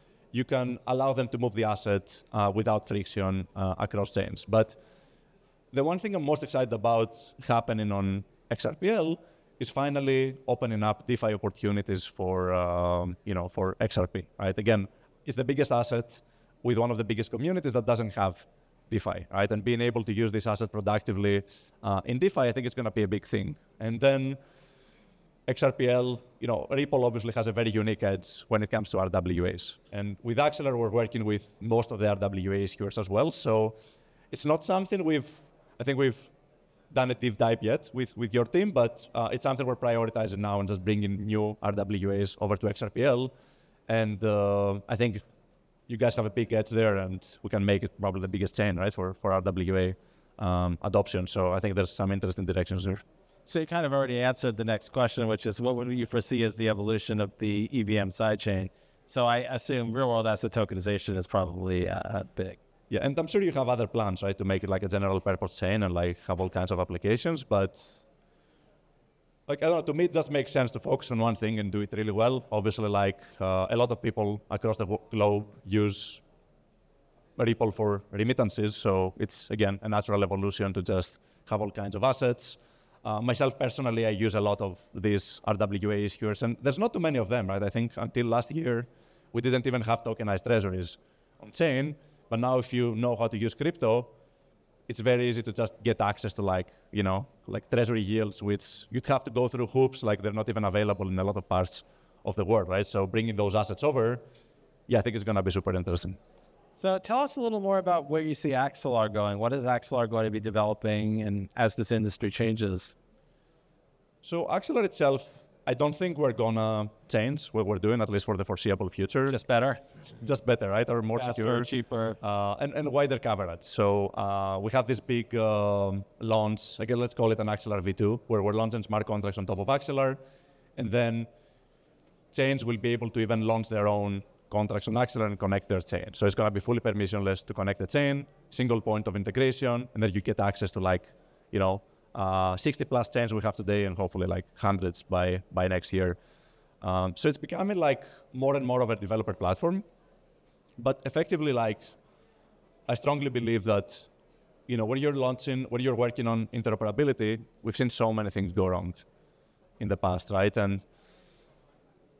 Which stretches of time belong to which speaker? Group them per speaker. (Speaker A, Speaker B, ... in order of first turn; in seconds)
Speaker A: 0.3-4.8, 5.7-24.4, 25.5-33.8, 34.3-36.3, 36.9-43.3, 43.9-45.2, 45.9-53.0, 62.9-68.0, 69.5-76.2, 77.4-94.1, 94.9-104.2, 104.9-106.2, 114.2-119.4, 120.2-130.2, 130.8-131.3, 132.3-146.2, 146.8-149.8, 150.8-152.0, 152.9-154.1, 154.7-159.1, 159.8-160.8
Speaker B: 53.5-62.6, 106.8-112.9, 119.3-119.8, 121.1-122.2